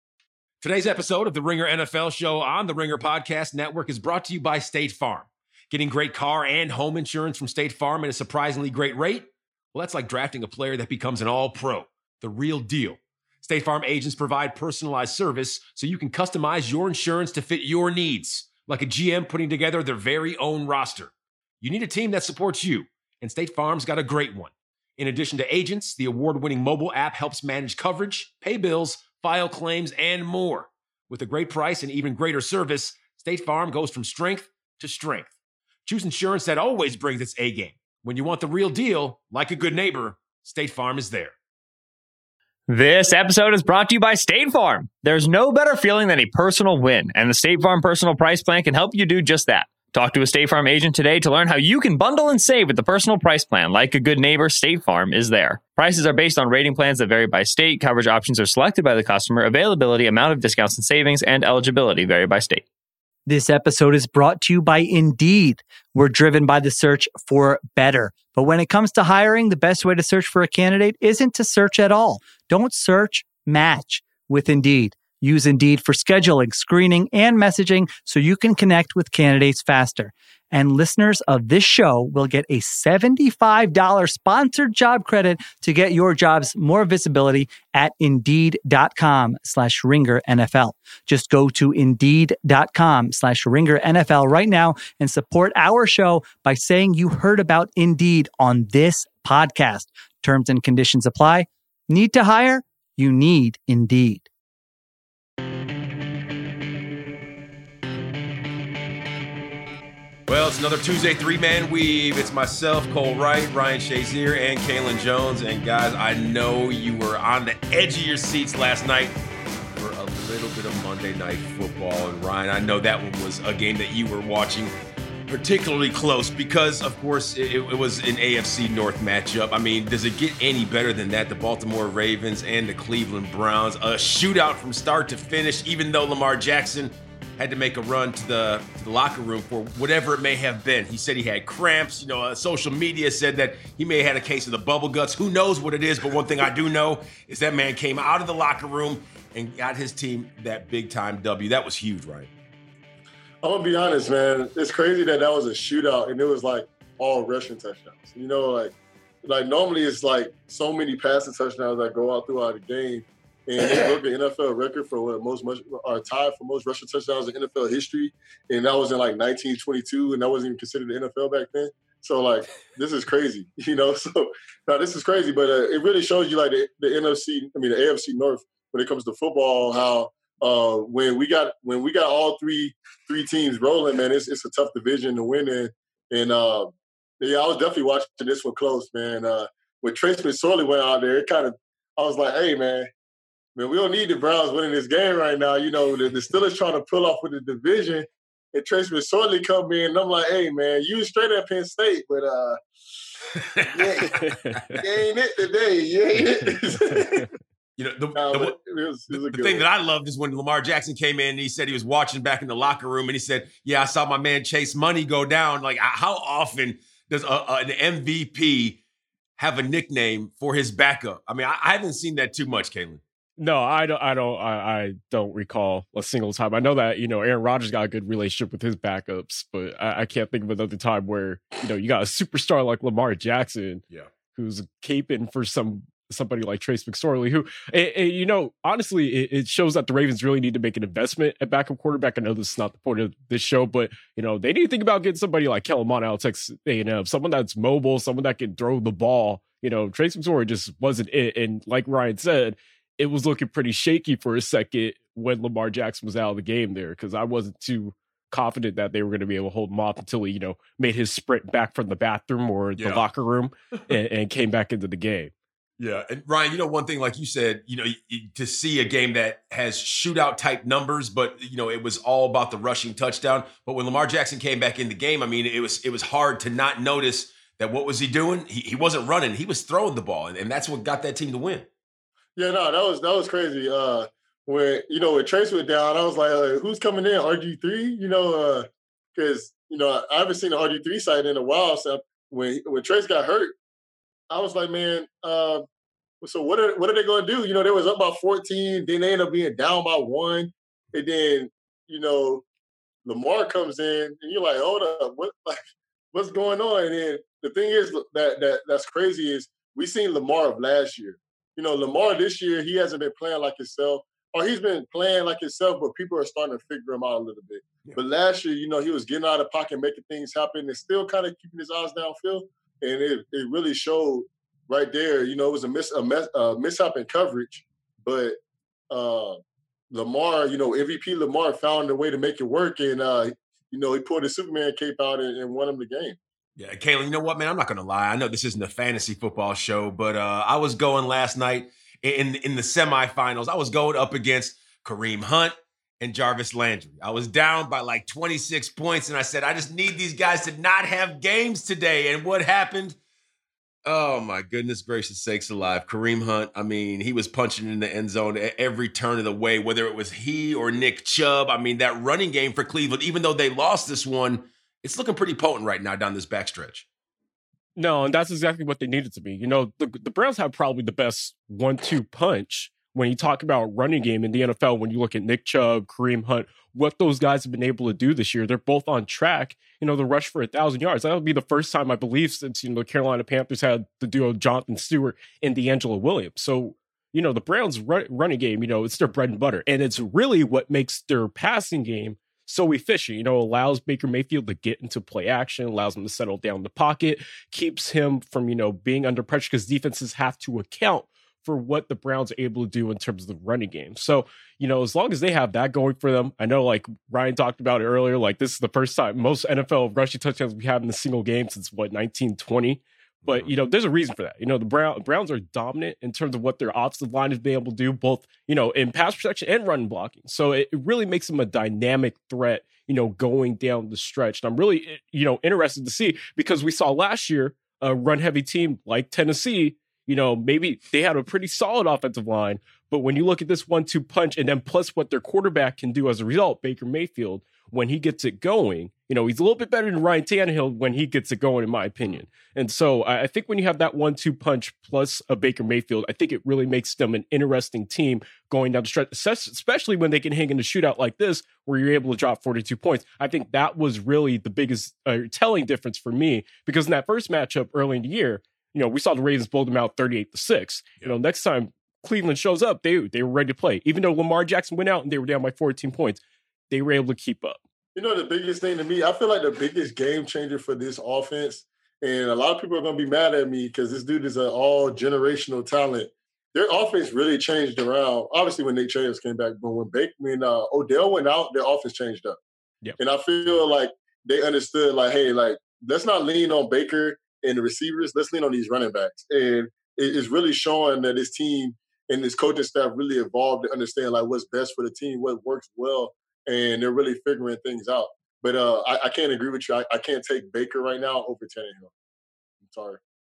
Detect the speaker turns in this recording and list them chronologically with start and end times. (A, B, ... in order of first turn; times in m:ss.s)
0:00.6-0:35.3 A
0:35.8-0:41.3 A
0:42.7-1:02.6 B
1:03.3-1:44.3 C
1:50.3-1:59.2 A
1:59.7-2:04.7 A
2:05.3-2:32.3 A
2:33.4-3:12.9 D
3:13.6-3:22.6 D
3:23.3-3:24.8 A
3:23.7-3:24.2 D
3:24.1-3:24.8 E
3:24.8-3:27.2 D
3:26.7-3:27.2 E
3:27.8-3:28.5 A
3:28.1-3:29.6 D
3:29.1-3:38.8 A
3:39.4-3:43.0 A
3:43.4-4:25.3 E
4:22.8-4:23.0 A
4:25.8-4:41.7 A
4:42.4-4:53.6 D
4:54.3-4:55.6 D
4:56.2-5:02.4 D
5:03.0-5:28.4 D
5:28.9-5:29.4 D
5:29.9-5:36.2 D
5:36.6-5:53.0 A
5:53.8-6:06.8 A
6:07.8-7:47.6 E
6:53.2-6:53.5 A
7:47.9-8:02.4 D
8:03.0-8:21.9 D
8:22.6-8:23.0 D